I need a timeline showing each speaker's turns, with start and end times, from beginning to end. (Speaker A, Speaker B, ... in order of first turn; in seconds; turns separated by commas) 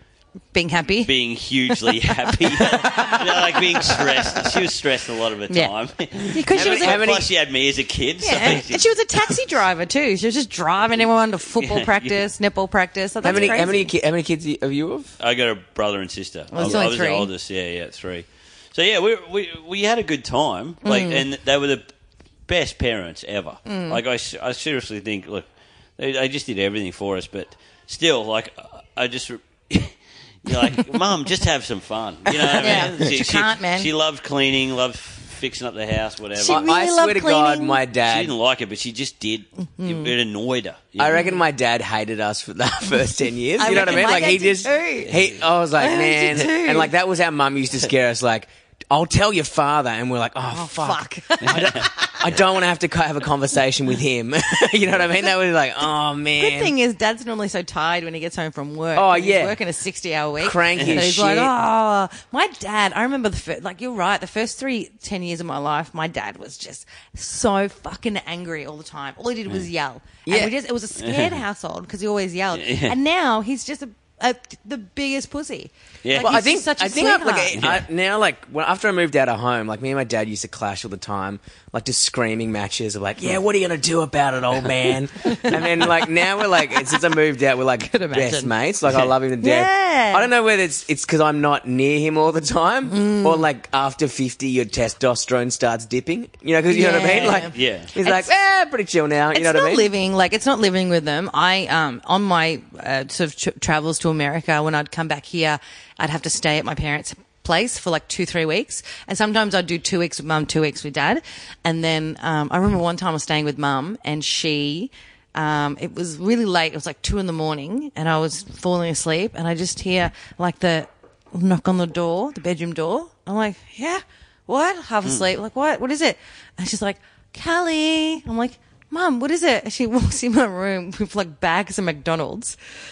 Speaker A: 0.5-1.1, Speaker B: 1.1-8.9, Speaker A: 1.7-4.4, Speaker A: 6.2-7.1, Speaker C: 6.5-7.3, Speaker A: 8.2-13.9, Speaker B: 11.6-12.1, Speaker C: 13.2-15.1, Speaker B: 13.2-13.7, Speaker B: 15.2-21.8, Speaker A: 16.5-17.3, Speaker C: 16.6-16.9, Speaker A: 20.8-21.2, Speaker B: 22.5-25.4, Speaker A: 23.7-24.0, Speaker B: 26.0-36.6, Speaker C: 32.3-32.9, Speaker A: 32.6-33.9, Speaker A: 36.4-37.8, Speaker C: 36.4-38.3, Speaker B: 38.1-41.2, Speaker A: 39.8-40.1, Speaker C: 41.0-56.7, Speaker A: 41.1-41.4, Speaker A: 43.6-45.1, Speaker A: 45.8-46.9, Speaker A: 50.5-52.2, Speaker B: 51.4-51.8, Speaker A: 56.4-77.6, Speaker C: 59.0-59.6, Speaker C: 60.4-61.5, Speaker C: 70.3-70.5, Speaker B: 71.0-71.4, Speaker B: 72.5-73.0, Speaker B: 76.0-76.4, Speaker C: 76.2-99.9, Speaker B: 77.6-77.8, Speaker A: 87.8-88.5, Speaker A: 89.4-90.3, Speaker A: 92.9-93.5, Speaker A: 96.7-98.3, Speaker B: 97.1-97.9, Speaker A: 99.3-132.6